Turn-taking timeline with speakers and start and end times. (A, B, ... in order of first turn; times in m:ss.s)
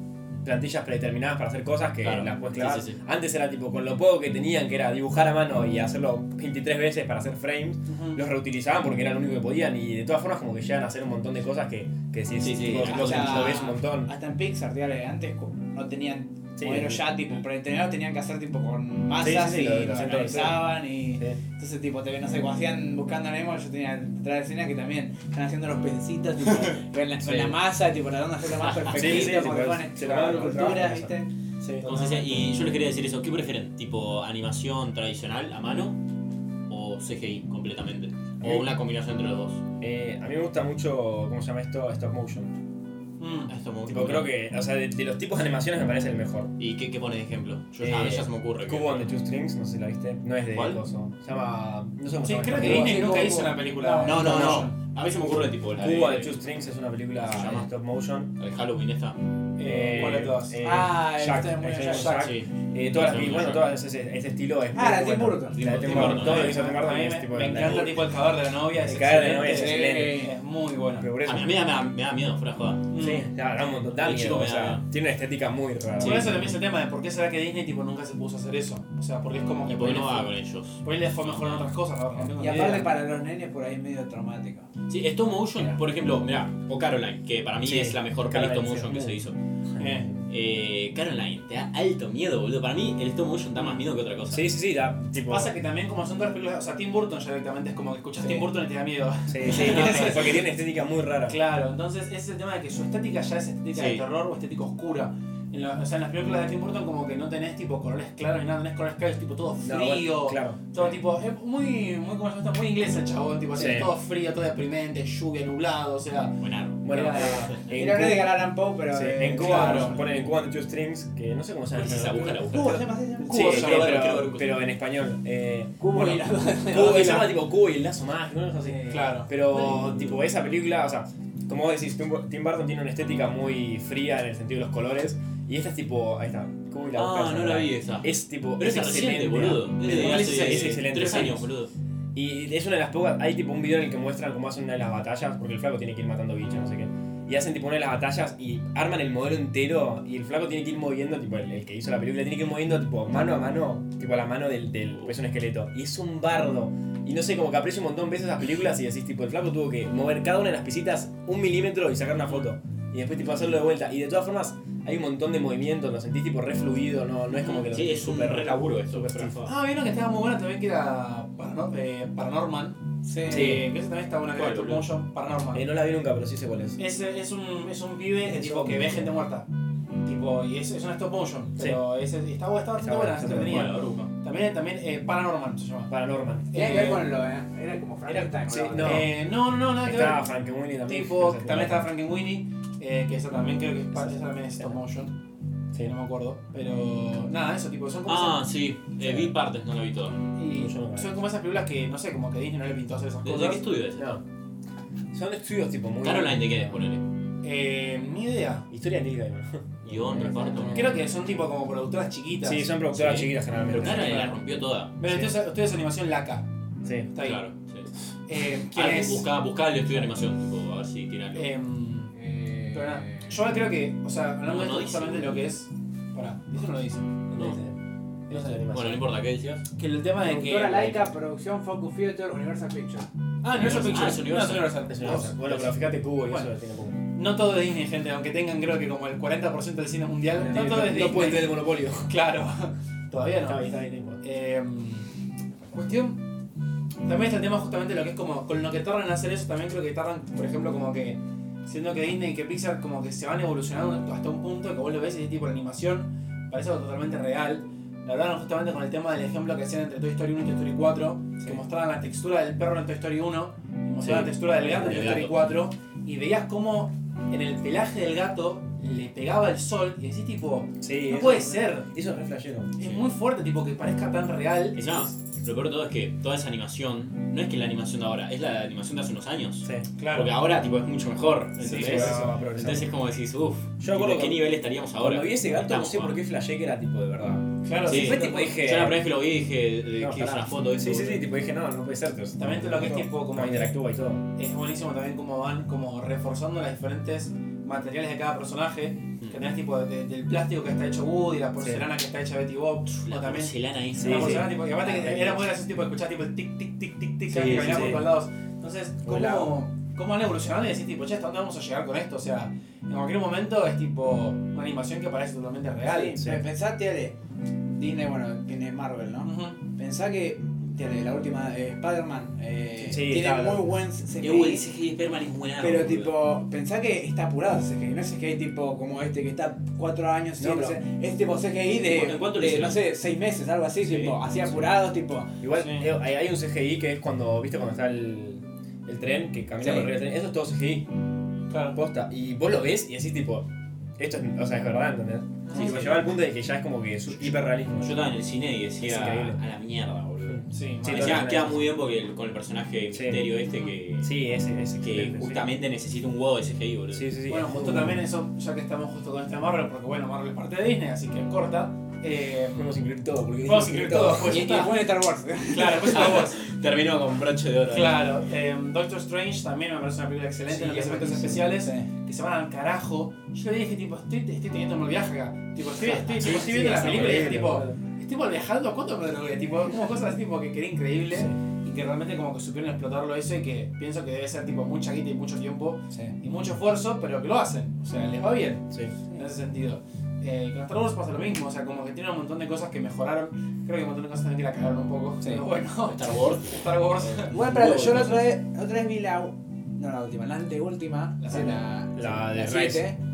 0:00.4-0:14.1 A
0:02.0-0:03.0 B
0:07.9-0:08.2 C
0:12.4-0:13.6 B
0:12.8-0:31.3 D
0:16.6-0:17.0 A
0:19.2-0:21.4 A
0:27.2-0:27.6 A
0:28.9-0:31.9 A
0:31.8-0:32.2 C
0:31.8-0:36.0 B
0:36.7-0:39.6 B
0:38.4-0:38.7 A
0:39.8-0:42.5 A
0:43.2-0:43.5 C
0:43.5-0:44.3 B
0:43.8-0:46.5 A
0:46.6-0:49.1 B
0:47.8-0:53.0 A
0:50.5-0:50.8 B
0:52.2-0:54.7 C
0:52.5-0:54.7 D
0:54.0-0:56.3 B
0:55.8-0:58.3 A
0:57.2-0:57.7 B
0:58.4-0:59.2 B
0:59.6-1:00.8 C
0:59.6-1:08.1 A
1:00.6-1:02.2 D
1:01.9-1:03.7 B
1:04.7-1:05.6 D
1:05.5-1:06.7 B
1:05.7-1:11.1 C
1:07.5-1:07.9 B
1:08.8-1:10.3 A
1:09.4-1:10.3 D
1:11.0-1:11.6 A
1:11.2-1:12.9 B
1:12.9-1:13.3 C
1:12.9-1:16.6 A
1:14.0-1:14.8 B
1:16.0-1:16.4 B
1:16.0-1:20.3 C
1:19.7-1:21.7 B
1:20.8-1:22.9 C
1:22.2-1:22.8 A
1:22.4-1:24.7 D
1:24.9-1:29.4 B
1:27.6-1:29.2 A
1:29.7-1:30.2 A
1:29.8-1:30.1 C
1:30.3-1:34.4 B
1:34.3-1:35.5 A
1:35.3-1:40.4 C
1:39.3-1:41.4 A
1:39.4-1:40.3 B
1:41.3-1:57.6 C
1:43.7-1:44.0 B
1:49.6-1:51.0 A
1:53.5-1:53.9 A
1:56.4-1:57.6 B
1:56.8-1:58.3 A
1:57.7-2:00.0 D
1:58.9-2:02.4 A
1:59.4-2:00.0 C
2:01.7-2:04.6 B
2:02.1-2:03.5 D
2:03.3-2:04.2 C
2:03.3-2:21.5 A
2:05.8-2:07.4 D
2:08.6-2:09.7 D
2:08.9-2:09.3 C
2:16.9-2:21.7 B
2:19.9-2:21.2 C
2:22.1-2:49.5 A
2:47.3-2:49.5 B
2:49.4-2:55.6 C
2:53.0-2:53.6 D
2:53.3-2:53.7 A
2:54.3-2:54.9 B
2:55.5-2:56.8 A
2:56.8-2:59.5 C
2:58.2-2:59.1 A
3:00.0-3:05.9 C
3:01.6-3:01.8 A
3:02.8-3:03.8 A
3:03.3-3:04.1 B
3:05.9-3:07.0 A
3:06.5-3:07.0 C
3:06.5-3:09.1 D
3:08.4-3:09.1 A
3:08.8-3:10.2 C
3:09.8-3:11.9 A
3:10.9-3:15.1 C
3:14.0-3:14.8 A
3:15.8-3:18.4 C
3:18.0-3:20.2 B
3:19.0-3:19.3 A
3:20.3-3:23.6 C
3:20.5-3:21.2 A
3:23.2-3:24.2 B
3:24.0-3:24.2 A
3:25.1-3:26.8 A
3:26.0-3:27.0 B
3:27.4-3:28.7 C
3:28.7-3:31.0 A
3:29.8-3:31.0 B
3:30.6-3:32.7 C
3:32.4-3:34.3 A
3:32.9-3:34.9 B
3:33.8-3:34.3 C
3:35.0-3:36.5 C
3:35.0-3:35.3 A
3:36.8-3:37.1 A
3:37.1-3:37.4 C
3:37.2-3:37.9 B
3:38.3-3:39.3 C
3:38.7-3:41.5 B
3:41.3-3:42.1 C
3:42.1-3:43.4 D
3:42.7-3:47.2 C
3:44.5-3:45.4 B
3:47.3-3:47.7 A
3:48.3-3:49.0 A
3:48.3-3:48.6 C
3:48.7-3:49.6 B
3:49.7-3:51.1 C
3:50.2-3:53.1 D
3:53.4-3:55.7 B
3:53.4-3:55.3 C
3:54.9-3:57.0 A
3:57.1-4:03.6 C
4:00.3-4:02.1 A
4:03.4-4:04.2 A
4:04.2-4:05.1 C
4:05.7-4:06.2 C
4:07.0-4:31.9 C
4:24.0-4:25.2 A
4:24.0-4:25.4 B
4:30.8-4:32.7 A
4:32.8-4:35.0 C
4:32.8-4:33.1 B
4:34.7-4:46.1 B
4:40.0-4:40.4 C
4:41.6-4:42.3 C
4:41.6-4:42.9 A
4:43.8-4:49.0 A
4:47.6-4:48.6 C
4:47.8-4:51.2 B
4:50.0-4:54.2 A
4:52.4-4:53.7 C
4:54.4-5:16.2 C
5:01.6-5:01.9 A
5:02.9-5:04.5 B
5:04.0-5:05.4 A
5:07.3-5:08.1 A
5:09.0-5:09.5 A
5:15.8-5:17.2 D
5:16.2-5:16.4 A
5:17.7-5:24.6 D
5:19.2-5:19.6 C
5:22.8-5:23.8 A
5:24.2-5:26.2 B
5:25.6-5:35.3 D
5:30.4-5:30.8 A
5:31.8-5:32.8 B
5:33.8-5:34.2 B
5:35.4-5:40.9 A
5:35.5-5:35.9 C
5:41.5-5:41.8 C
5:41.7-5:43.5 A
5:44.0-5:48.0 A
5:45.5-5:46.0 C
5:45.5-5:46.0 B
5:47.2-5:54.1 B
5:48.8-5:49.4 A
5:50.2-5:51.7 A
5:50.5-5:51.3 C
5:52.9-5:53.3 A
5:53.4-5:53.7 C
5:54.0-5:55.5 A
5:54.8-5:57.1 B
5:56.9-5:58.0 A
5:57.3-6:02.8 C
6:02.5-6:04.6 A
6:03.4-6:04.9 C
6:04.2-6:06.2 D
6:05.5-6:06.4 C
6:05.8-6:08.0 B
6:07.7-6:38.1 C
6:10.5-6:11.4 A
6:10.9-6:11.9 D
6:16.1-6:17.8 A
6:16.2-6:17.1 D
6:21.1-6:21.4 A
6:28.7-6:29.0 A
6:35.8-6:38.1 B
6:37.3-6:43.0 D
6:41.2-6:41.6 C
6:41.9-6:42.8 A